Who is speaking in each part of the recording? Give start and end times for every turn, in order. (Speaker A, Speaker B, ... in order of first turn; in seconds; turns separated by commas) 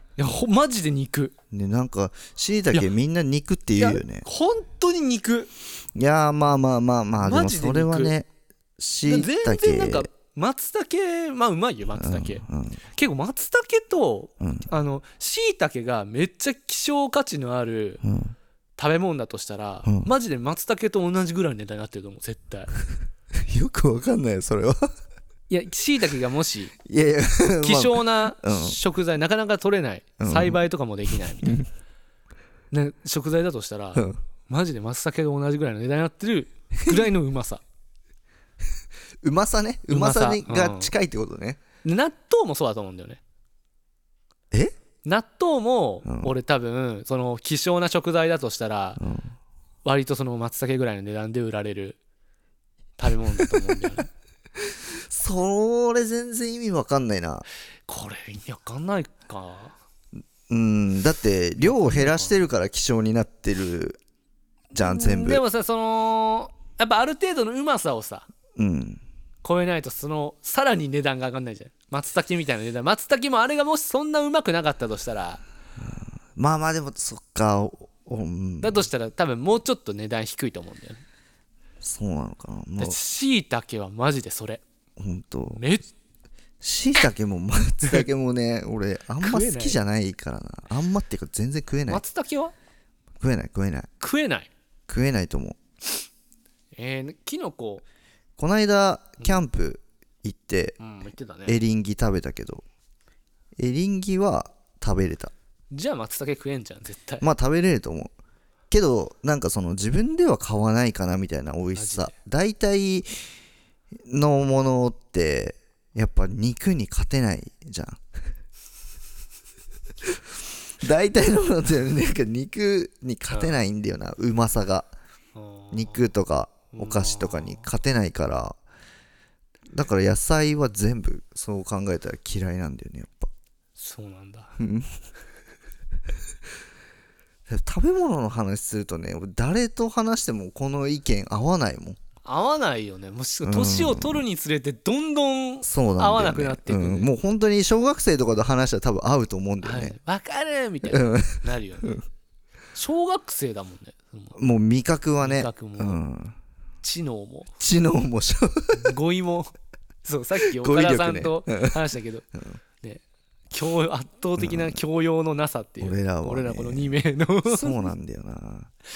Speaker A: 0.2-1.4, Speaker B: 1.5-4.2, Speaker A: 3.8-5.5, Speaker B: 6.0-10.1, Speaker A: 7.2-8.1, Speaker A: 9.1-18.0, Speaker B: 12.0-12.8, Speaker B: 14.4-14.7, Speaker B: 18.0-18.4, Speaker A: 18.8-22.7, Speaker B: 23.4-24.9, Speaker A: 25.5-26.8, Speaker B: 26.9-28.8, Speaker A: 27.6-31.6, Speaker B: 30.2-30.6, Speaker A: 32.7-37.6, Speaker B: 39.2-41.6, Speaker A: 39.9-40.9, Speaker A: 41.8-43.2, Speaker A: 45.0-49.0, Speaker B: 46.1-46.3, Speaker B: 49.0-49.3, Speaker A: 49.9-52.0, Speaker A: 53.0-54.1, Speaker B: 53.5-53.8, Speaker B: 54.6-57.5, Speaker A: 57.9-59.8, Speaker B: 60.2-64.0, Speaker A: 61.6-62.4, Speaker B: 64.7-65.4, Speaker A: 64.8-68.3, Speaker B: 68.6-69.0, Speaker A: 69.4-75.4, Speaker B: 75.8-78.8, Speaker A: 78.6-81.0, Speaker B: 81.8-83.0, Speaker A: 82.8-84.6, Speaker B: 85.0-85.6, Speaker A: 85.6-85.9, Speaker B: 86.6-92.0, Speaker A: 89.2-89.8, Speaker A: 91.9-92.5, Speaker B: 93.2-93.9, Speaker A: 94.0-94.5, Speaker B: 94.9-95.6, Speaker A: 96.8-97.8, Speaker B: 98.4-100.8, Speaker A: 100.8-101.6, Speaker B: 101.5-102.6, Speaker B: 103.6-105.3, Speaker A: 105.7-107.2, Speaker B: 107.2-108.1, Speaker B: 108.7-113.2, Speaker A: 111.8-112.1, Speaker B: 114.0-118.3, Speaker B: 120.0-120.3, Speaker B: 120.8-124.9, Speaker A: 125.3-126.0, Speaker B: 125.7-128.6, Speaker A: 126.7-127.7, Speaker B: 129.7-133.3, Speaker A: 133.8-134.6, Speaker B: 134.6-134.9, Speaker B: 137.5-142.0, Speaker A: 142.2-147.1, Speaker B: 143.4-144.2, Speaker B: 145.6-150.0, Speaker A: 149.6-152.0, Speaker B: 150.8-152.0, Speaker A: 152.7-154.4, Speaker B: 154.3-156.4, Speaker A: 155.2-156.0, Speaker A: 156.8-157.5, Speaker B: 157.6-158.9, Speaker A: 158.7-159.5, Speaker A: 160.1-162.3, Speaker B: 160.5-161.8, Speaker A: 162.8-167.9, Speaker B: 164.4-164.8, Speaker B: 165.8-168.7